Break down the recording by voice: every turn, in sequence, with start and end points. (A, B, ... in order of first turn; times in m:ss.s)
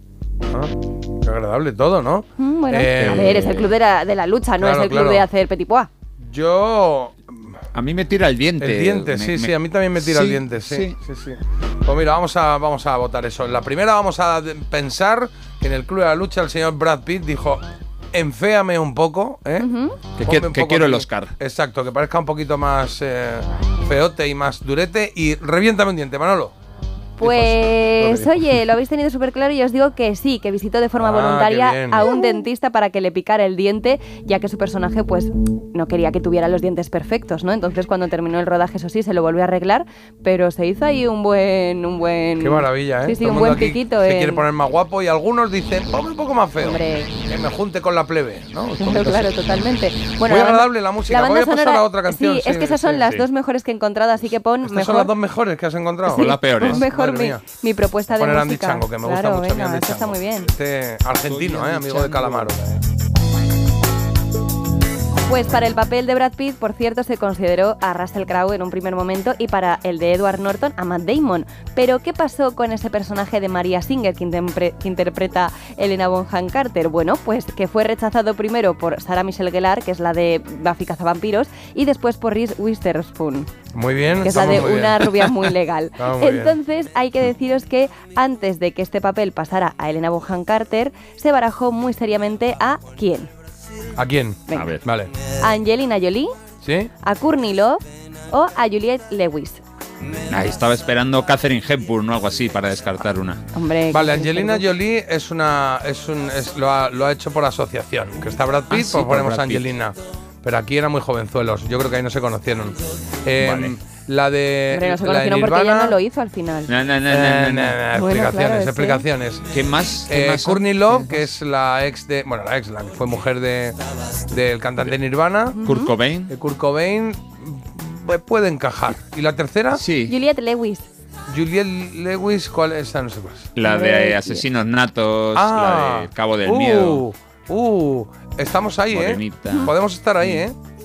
0:00.5-0:03.6 A
0:02.4-0:05.9 B
0:03.1-0:03.7 C
0:04.6-0:05.3 A
0:06.2-0:07.6 A
0:07.8-0:11.0 C
0:08.6-0:19.7 A
0:19.6-0:20.0 B
0:20.2-0:21.3 C
0:20.2-0:26.5 A
0:27.2-0:44.4 B
0:27.2-0:28.6 A
0:31.0-0:32.1 A
0:42.4-0:49.3 A
0:46.6-0:47.1 B
0:48.8-0:55.1 B
0:50.2-0:53.1 A
0:54.7-0:57.4 A
0:56.1-0:56.9 C
0:56.1-1:00.5 B
0:58.1-1:02.8 A
1:01.3-1:02.6 C
1:05.2-1:23.5 B
1:23.7-1:26.6 A
1:24.2-1:33.3 B
1:34.0-1:35.1 A
1:34.5-1:34.8 B
1:34.5-1:34.8 C
1:35.3-1:36.3 B
1:36.6-1:36.9 A
1:37.0-1:39.6 B
1:40.2-1:43.4 C
1:43.6-1:44.7 B
1:43.9-1:56.0 A
1:48.7-1:49.6 C
1:53.4-1:53.7 C
1:54.7-1:56.7 B
1:56.7-1:57.8 C
1:57.1-1:59.5 A
1:57.9-1:59.0 B
1:59.5-2:01.2 C
2:00.1-2:03.8 A
2:04.3-2:05.6 A
2:05.5-2:05.9 B
2:05.6-2:06.3 C
2:06.3-2:09.8 A
2:09.8-2:10.2 C
2:10.1-2:10.9 B
2:11.3-2:13.5 A
2:13.6-2:17.0 C
2:13.6-2:14.4 B
2:15.3-2:20.6 A
2:18.9-2:20.4 C
2:19.5-2:19.7 B